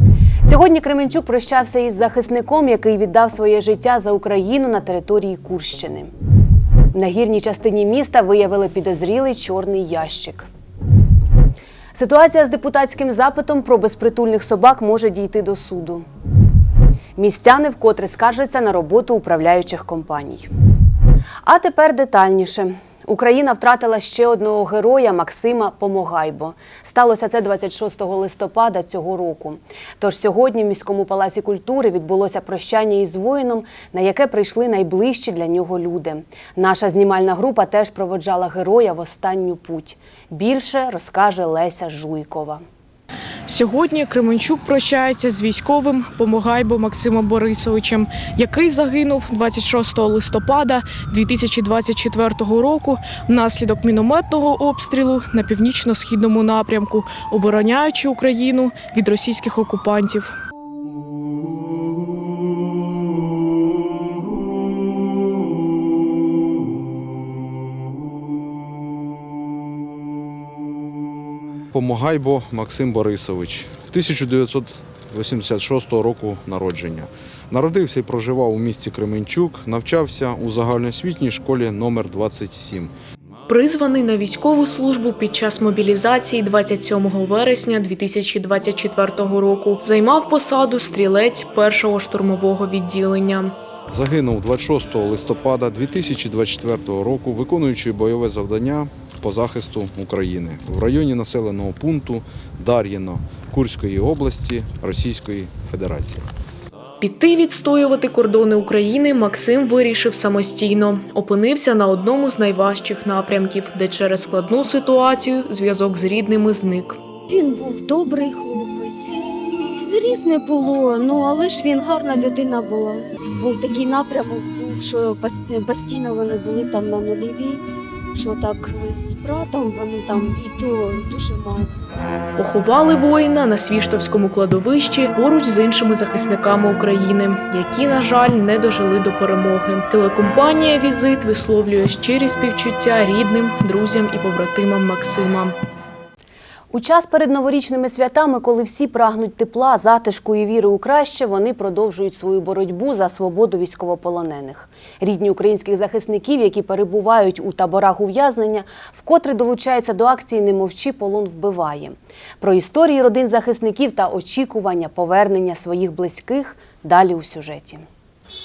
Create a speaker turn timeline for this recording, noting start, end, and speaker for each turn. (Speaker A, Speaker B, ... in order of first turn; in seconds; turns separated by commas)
Speaker A: 0.4-6.1, Speaker A: 6.9-10.5, Speaker A: 11.9-16.1, Speaker A: 17.2-20.5, Speaker A: 21.4-42.6, Speaker B: 43.5-60.4, Speaker C: 71.7-82.9, Speaker B: 83.5-93.5, Speaker C: 93.9-106.3, Speaker B: 107.0-117.0, Speaker D: 117.3-127.6, Speaker D: 128.2-131.7, Speaker B: 132.4-145.6, Speaker A: 146.7-167.8